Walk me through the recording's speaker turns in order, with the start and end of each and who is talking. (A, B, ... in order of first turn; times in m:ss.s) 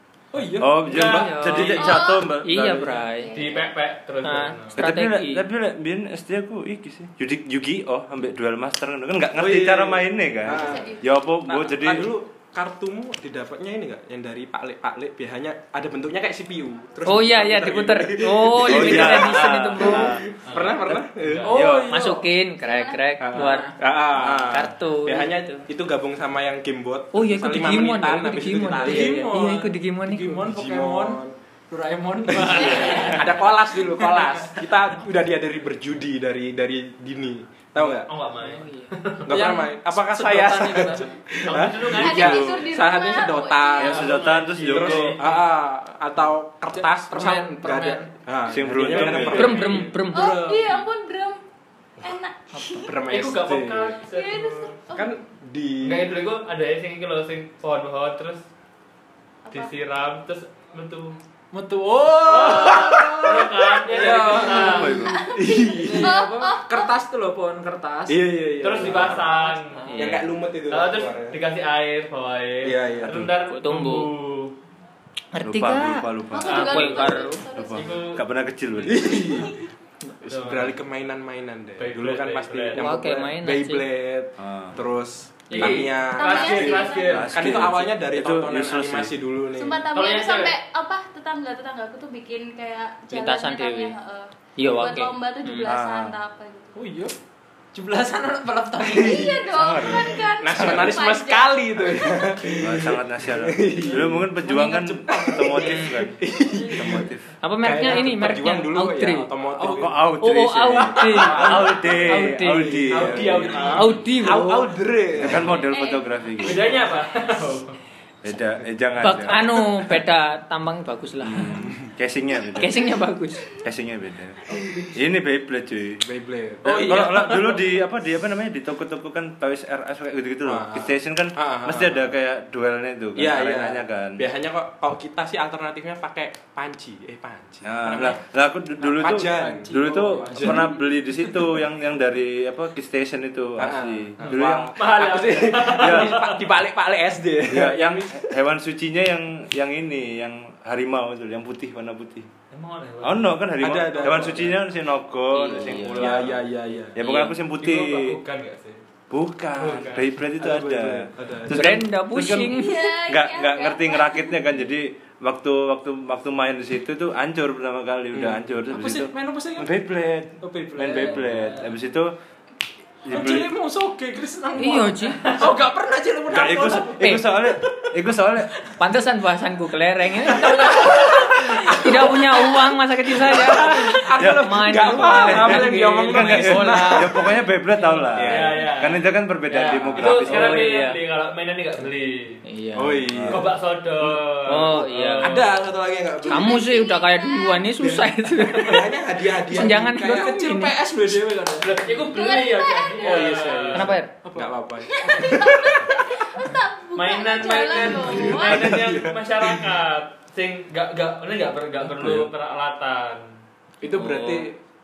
0:00.3-0:01.6 A
0:00.6-0:03.0 B
0:00.9-0:01.4 C
0:00.9-0:03.4 D
0:01.5-0:02.3 E
0:03.1-0:03.7 E
0:03.3-0:04.7 C
0:04.2-0:05.4 D
0:04.8-0:12.1 B
0:09.3-0:21.6 F
0:10.5-0:11.1 E
0:17.0-0:20.2 D
0:18.6-0:20.2 B
0:20.4-0:21.5 C
0:20.9-0:21.9 B
0:21.4-0:22.3 A
0:21.9-0:25.4 D
0:22.6-0:23.4 E
0:23.2-0:29.3 F
0:24.2-0:24.7 B
0:27.1-0:30.4 D
0:28.8-0:34.7 A
0:30.4-0:31.3 F
0:32.3-0:38.1 F
0:32.4-0:33.3 C
0:37.9-0:39.4 C
0:38.4-0:38.9 D
0:39.2-0:50.0 F
0:39.3-0:41.2 A
0:41.4-0:42.6 C
0:41.8-0:44.4 E
0:43.8-0:45.2 B
0:43.9-0:45.4 C
0:46.7-0:48.2 A
0:48.4-0:49.7 B
0:48.9-0:50.9 A
0:49.0-0:49.5 C
0:49.3-0:50.4 D
0:50.1-0:51.4 E
0:52.0-0:53.0 E
0:52.7-0:53.9 F
0:53.1-0:54.8 C
0:54.0-0:55.2 E
0:54.9-0:56.1 F
0:55.8-0:58.4 C
0:59.4-0:59.7 E
0:59.5-1:01.2 C
1:01.5-1:05.0 A
1:02.2-1:05.0 C
1:02.4-1:06.1 F
1:04.6-1:05.2 B
1:05.0-1:06.9 E
1:05.7-1:08.2 A
1:08.1-1:09.3 F
1:08.6-1:09.8 C
1:08.8-1:10.1 A
1:09.8-1:10.3 D
1:09.9-1:11.4 F
1:10.7-1:14.5 C
1:12.6-1:13.3 F
1:13.5-1:14.1 D
1:15.3-1:17.4 D
1:15.4-1:16.8 B
1:16.3-1:18.2 E
1:16.5-1:17.2 C
1:17.5-1:19.4 B
1:17.7-1:18.2 C
1:18.7-1:19.1 C
1:18.8-1:19.6 F
1:20.2-1:29.9 F
1:20.2-1:20.8 C
1:21.8-1:22.8 C
1:22.7-1:23.9 D
1:24.4-1:24.8 B
1:25.5-1:27.6 C
1:25.7-1:27.3 E
1:27.0-1:29.2 B
1:29.5-1:36.7 E
1:29.9-1:30.6 C
1:33.1-1:34.0 D
1:34.6-1:35.7 D
1:35.6-1:36.2 B
1:36.7-1:37.1 A
1:37.7-1:39.3 A
1:38.8-1:39.4 F
1:38.9-1:41.6 E
1:39.5-1:41.0 B
1:40.4-1:47.1 F
1:42.6-1:47.3 B
1:45.4-1:45.7 A
1:46.4-1:47.1 A
1:47.4-1:49.3 D
1:47.6-1:50.0 F
1:47.8-1:48.4 A
1:49.6-1:53.8 B
1:50.2-1:54.7 D
1:51.0-1:51.7 F
1:51.3-1:51.8 C
1:52.6-1:55.6 F
1:52.9-1:54.0 C
1:55.2-1:56.8 B
1:55.5-1:56.6 E
1:56.4-1:57.8 C
1:56.6-1:56.9 F
1:58.2-2:00.0 B
1:59.0-2:01.6 D
2:01.2-2:03.0 B
2:02.6-2:03.4 D
2:03.6-2:04.4 B
2:04.5-2:04.9 F
2:04.9-2:06.0 B
2:06.0-2:07.4 F
2:06.6-2:14.2 B
2:10.4-2:12.1 F
2:13.2-2:18.2 F
2:17.6-2:24.8 B
2:18.8-2:20.7 F
2:19.0-2:20.8 A
2:23.6-2:28.3 F
2:24.2-2:26.5 C
2:25.6-2:26.2 B
2:27.4-2:32.3 B
2:32.5-2:33.4 C
2:33.0-2:38.2 B
2:33.6-2:34.6 F
2:35.3-2:36.3 D
2:35.9-2:37.0 F
2:37.0-2:38.8 C
2:39.1-2:52.1 B
2:39.6-2:40.1 C
2:40.4-2:41.8 F
2:41.5-2:42.9 D
2:42.5-2:44.6 E
2:48.7-2:49.7 A
2:50.4-2:51.7 A
2:53.0-2:53.5 B
2:53.1-2:57.9 A
2:54.6-2:55.4 D
2:56.3-2:58.6 B
2:57.0-2:57.3 D
2:58.8-3:07.2 D
3:00.3-3:02.6 A
3:03.2-3:07.4 F
3:04.2-3:10.7 B
3:08.0-3:08.7 F
3:08.1-3:12.4 C
3:10.0-3:11.0 D
3:12.4-3:13.0 D
3:12.8-3:14.2 F
3:13.1-3:13.5 B
3:13.3-3:15.7 C
3:14.4-3:15.4 D
3:15.2-3:16.6 F
3:16.2-3:17.8 E
3:16.3-3:20.7 D
3:17.8-3:20.4 F
3:19.5-3:22.1 A
3:21.6-3:24.0 C
3:22.1-3:23.4 E
3:23.0-3:26.0 F
3:23.7-3:24.1 D
3:24.2-3:25.4 A
3:24.9-3:28.7 E
3:26.9-3:33.3 C
3:27.8-3:29.7 F
3:31.8-3:32.3 B
3:33.8-3:34.6 F
3:33.9-3:34.5 D